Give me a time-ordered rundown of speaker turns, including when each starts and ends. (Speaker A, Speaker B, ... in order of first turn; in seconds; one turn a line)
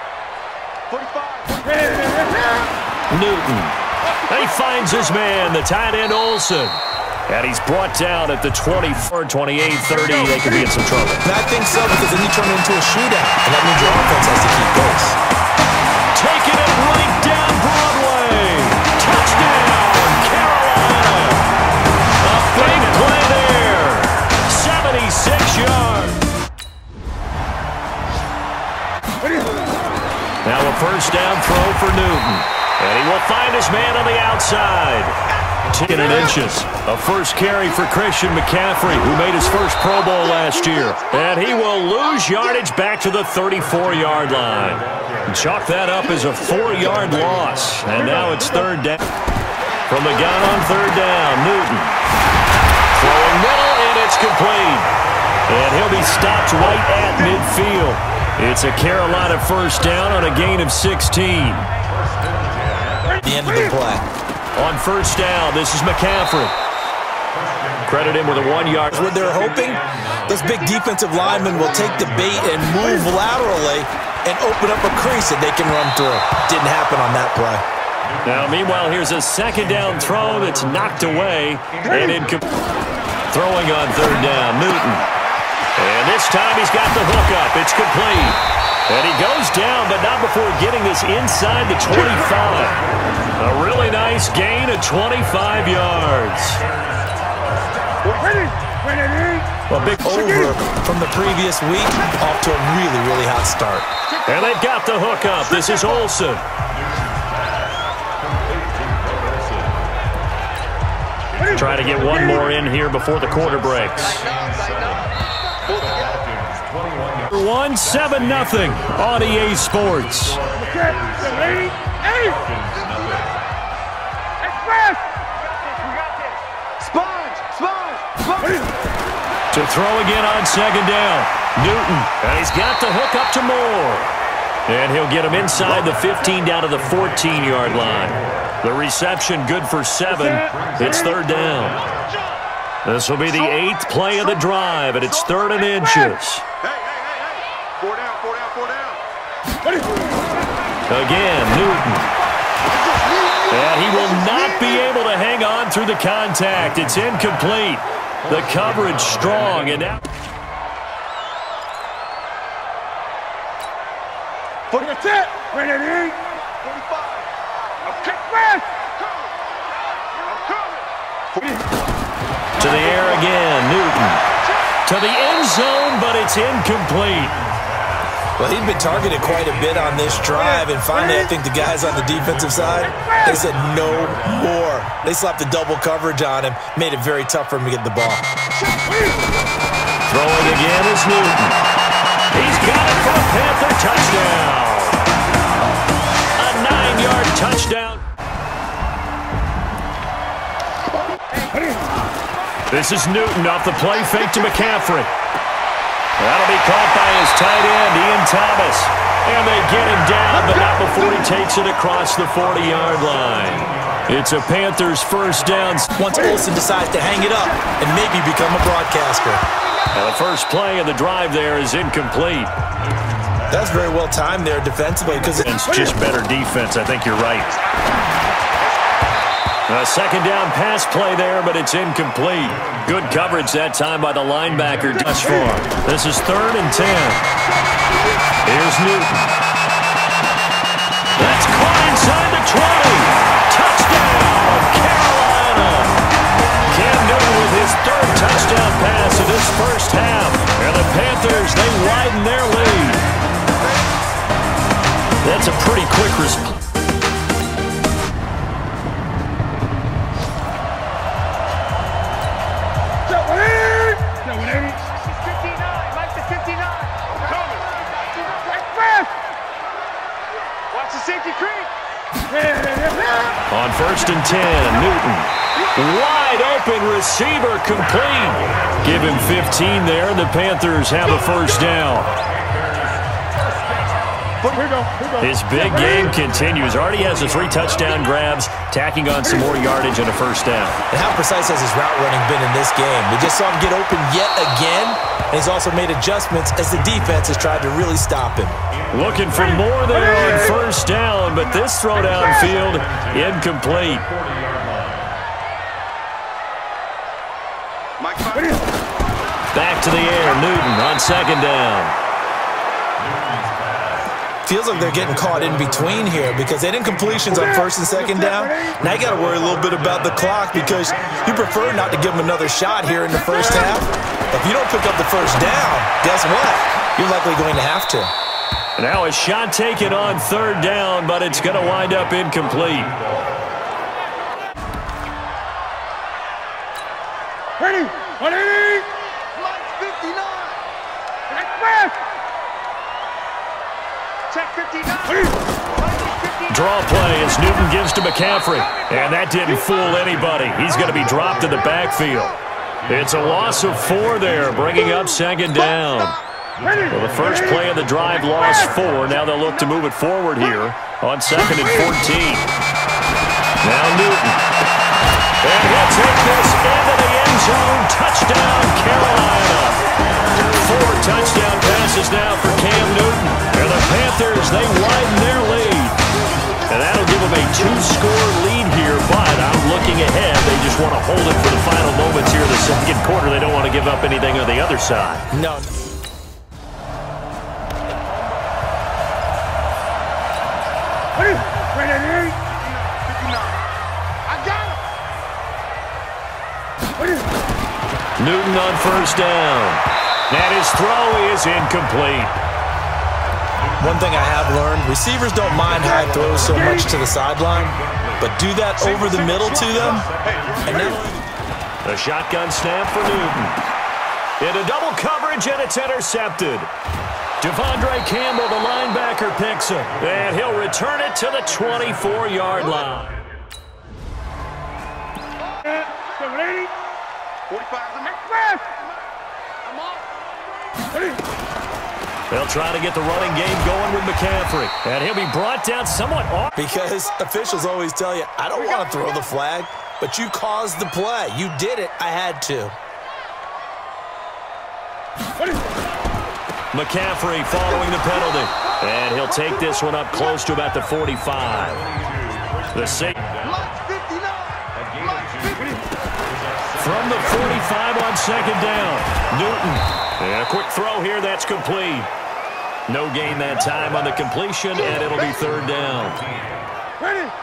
Speaker A: 0.9-2.5
Speaker B: 3.1-11.2
Speaker C: 11.2-15.2
Speaker B: 16.1-21.5
Speaker B: 22.2-26.2
Speaker B: 30.4-49.0
Speaker B: 49.9-52.0
Speaker B: 52.9-54.9
Speaker B: 55.5-61.7
Speaker C: 63.2-64.0
Speaker B: 64.5-66.5
Speaker B: 67.8-69.2
Speaker C: 68.9-77.6
Speaker B: 78.2-82.4
Speaker B: 83.3-85.1
Speaker A: 84.5-85.3
Speaker B: 85.8-92.8
Speaker B: 93.4-96.6
Speaker A: 98.0-98.5
Speaker C: 99.7-103.9
Speaker B: 104.2-106.5
Speaker B: 111.5-114.3
Speaker A: 114.1-116.5
Speaker B: 117.3-120.4
Speaker A: 122.2-123.3
Speaker A: 125.7-128.8
Speaker B: 129.5-134.2
Speaker B: 134.7-141.9
Speaker B: 142.8-146.4
Speaker A: 145.3-145.7
Speaker A: 146.6-149.0
Speaker B: 150.9-152.1
Speaker A: 152.7-154.3
Speaker B: 153.5-160.0
Speaker A: 164.7-167.3
Speaker A: 167.8-169.3
Speaker A: 170.1-171.6
Speaker B: 172.6-174.2
Speaker B: 174.9-177.4
Speaker C: 178.4-188.2
Speaker B: 190.1-191.6
Speaker B: 192.3-195.0
Speaker B: 196.4-198.0
Speaker B: 202.7-205.1
Speaker B: 206.2-215.9
Speaker C: 216.0-219.4
Speaker B: 219.9-222.5
Speaker C: 223.5-225.5
Speaker B: 225.4-227.5
Speaker B: 229.7-237.2
Speaker B: 238.4-239.3
Speaker B: 241.2-246.0
Speaker B: 246.7-253.1
Speaker B: 255.2-256.6
Speaker A: 263.7-269.1
Speaker A: 270.7-271.7
Speaker B: 273.5-282.1
Speaker A: 275.8-276.1
Speaker A: 284.4-284.9
Speaker B: 285.2-290.8
Speaker C: 290.9-298.6
Speaker B: 298.9-304.1
Speaker A: 308.0-308.6
Speaker B: 309.5-311.9
Speaker C: 314.4-328.1
Speaker B: 328.8-332.9
Speaker A: 337.8-340.6
Speaker A: 344.3-346.5
Speaker B: 346.5-356.2
Speaker B: 356.9-362.5
Speaker B: 363.6-364.4
Speaker B: 365.4-369.8
Speaker B: 370.4-376.0
Speaker B: 376.7-385.2
Speaker C: 385.3-385.7
Speaker A: 392.9-393.6
Speaker A: 394.3-394.8
Speaker B: 398.2-402.4
Speaker C: 403.8-410.1
Speaker C: 410.6-411.1
Speaker B: 411.8-413.6
Speaker B: 414.4-416.7
Speaker B: 417.4-423.2
Speaker A: 425.6-426.7
Speaker A: 427.5-428.9
Speaker A: 429.6-430.3
Speaker B: 432.3-436.5
Speaker C: 436.6-442.8
Speaker B: 446.7-451.9
Speaker B: 452.7-453.3
Speaker A: 453.4-455.8
Speaker B: 456.8-462.1
Speaker B: 462.9-466.2